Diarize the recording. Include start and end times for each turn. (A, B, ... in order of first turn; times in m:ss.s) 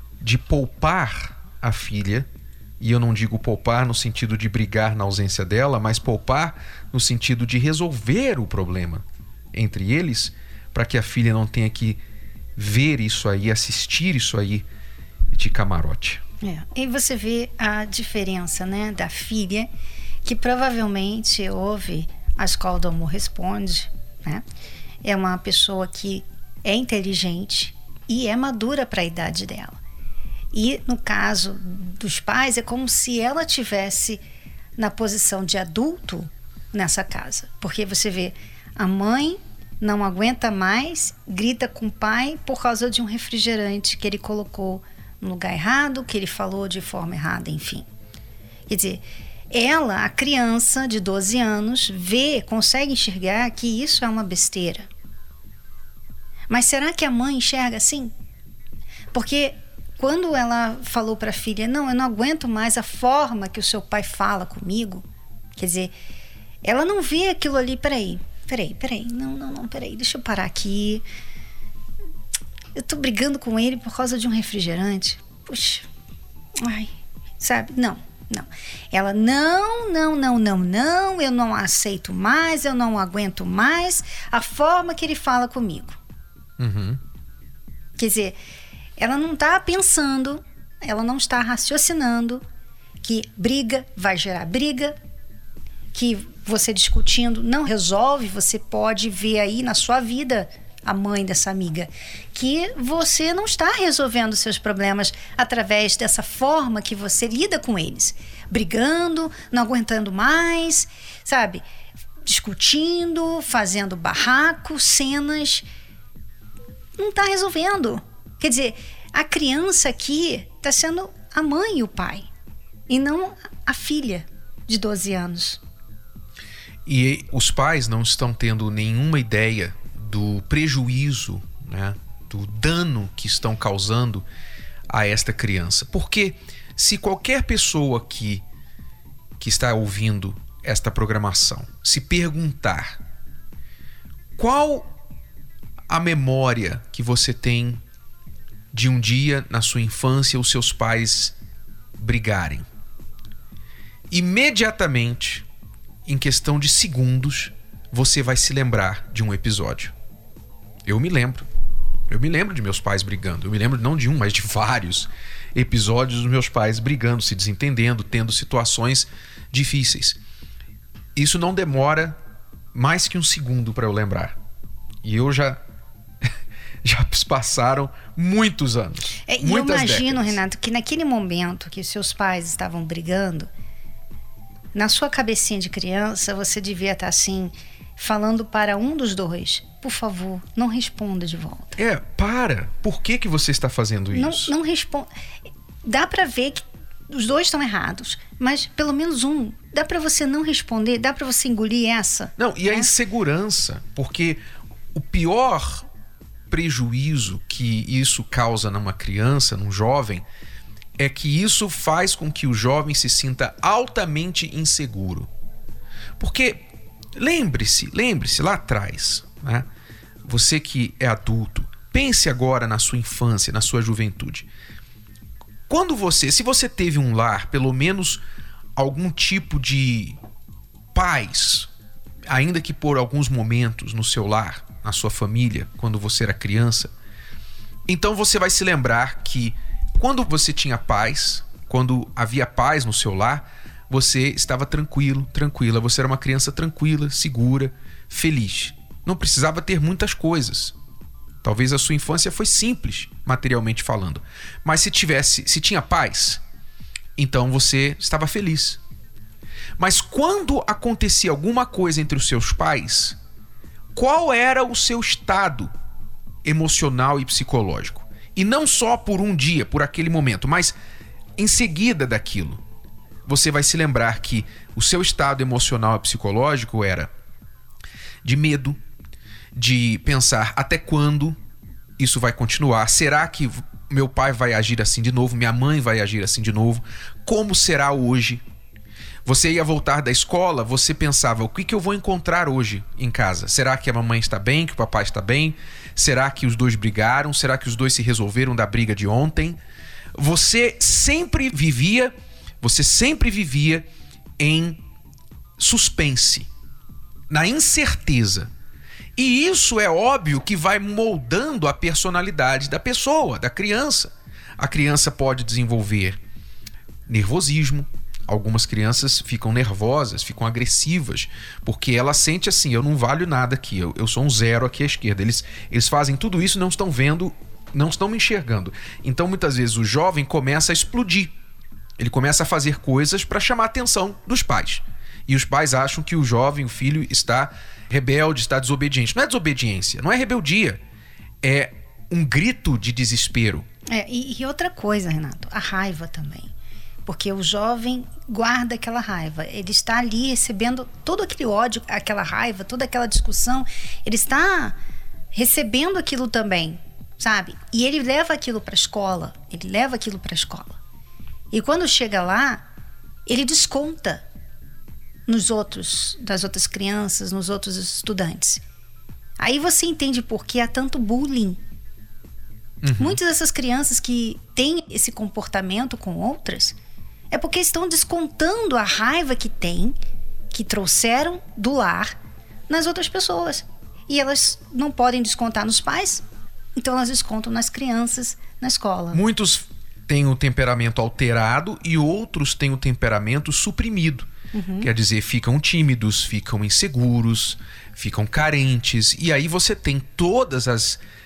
0:00.2-0:02.3 A
0:02.8-0:12.0 A
0:12.6-0:14.7 A
0:15.3-0:16.2 A
0:16.4-0:19.7 B
0:20.2-0:24.4 B
0:25.0-0:29.8 B
0:30.5-0:34.2 B
0:34.8-0:47.9 B
0:48.7-0:54.9 B
0:56.5-0:58.1 B
0:59.1-1:05.0 B
1:05.6-1:05.9 B
1:06.6-1:11.0 B
1:12.8-1:15.8 B
1:16.6-1:26.0 B
1:26.6-1:27.0 A
1:28.0-1:28.4 B
1:29.0-1:32.4 B
1:33.0-1:35.0 B
1:35.9-1:51.6 B
1:52.2-1:55.6 B
1:57.0-2:02.3 B
2:02.9-2:05.6 B
2:06.8-2:14.2 A
2:14.9-2:18.4 A
2:19.4-2:23.0 A
2:24.4-2:24.9 A
2:25.9-2:27.8 A
2:28.7-2:31.3 A
2:32.0-2:32.6 A
2:34.1-2:35.4 A
2:36.0-2:39.9 A
2:40.8-2:41.5 A
2:42.1-2:50.2 A
2:51.2-2:52.2 A
2:52.7-2:54.4 A
2:55.0-2:55.6 A
2:56.8-3:00.4 A
2:59.3-3:03.5 B
3:04.7-3:11.8 B
3:11.8-3:14.5 A
3:14.1-3:15.1 B
3:15.8-3:22.9 B
3:22.4-3:24.4 A
3:24.9-3:25.9 A
3:26.5-3:30.2 A
3:31.0-3:35.3 A
3:36.2-3:39.7 A
3:40.2-3:44.5 A
3:45.7-3:48.2 A
3:48.8-3:50.2 A
3:50.9-3:51.7 A
3:52.3-3:56.9 A
3:57.9-4:10.7 A
4:11.4-4:16.4 A
4:17.2-4:18.8 A
4:19.8-4:23.2 A
4:23.9-4:25.7 A
4:26.4-4:30.8 A
4:31.4-4:32.6 A
4:33.2-4:37.1 A
4:38.2-4:38.8 A
4:39.5-4:41.4 A
4:42.0-4:48.4 A
4:49.2-4:59.6 A
5:00.1-5:03.9 A
5:04.4-5:04.8 A
5:05.6-5:06.5 A
5:07.3-5:08.5 A
5:09.2-5:16.2 A
5:17.1-5:31.3 A
5:32.0-5:40.8 A
5:41.4-5:43.7 A
5:43.9-5:46.5 B
5:47.0-5:54.8 B
5:55.3-6:00.8 B
6:01.5-6:02.6 B
6:03.3-6:04.2 B
6:05.3-6:08.6 B
6:09.4-6:11.6 B
6:12.8-6:13.2 A
6:12.9-6:16.8 B
6:17.3-6:20.0 B
6:20.5-6:22.2 B
6:22.7-6:26.2 B
6:26.8-6:29.2 B
6:29.1-6:34.3 A
6:34.5-6:34.9 B
6:34.8-6:41.0 A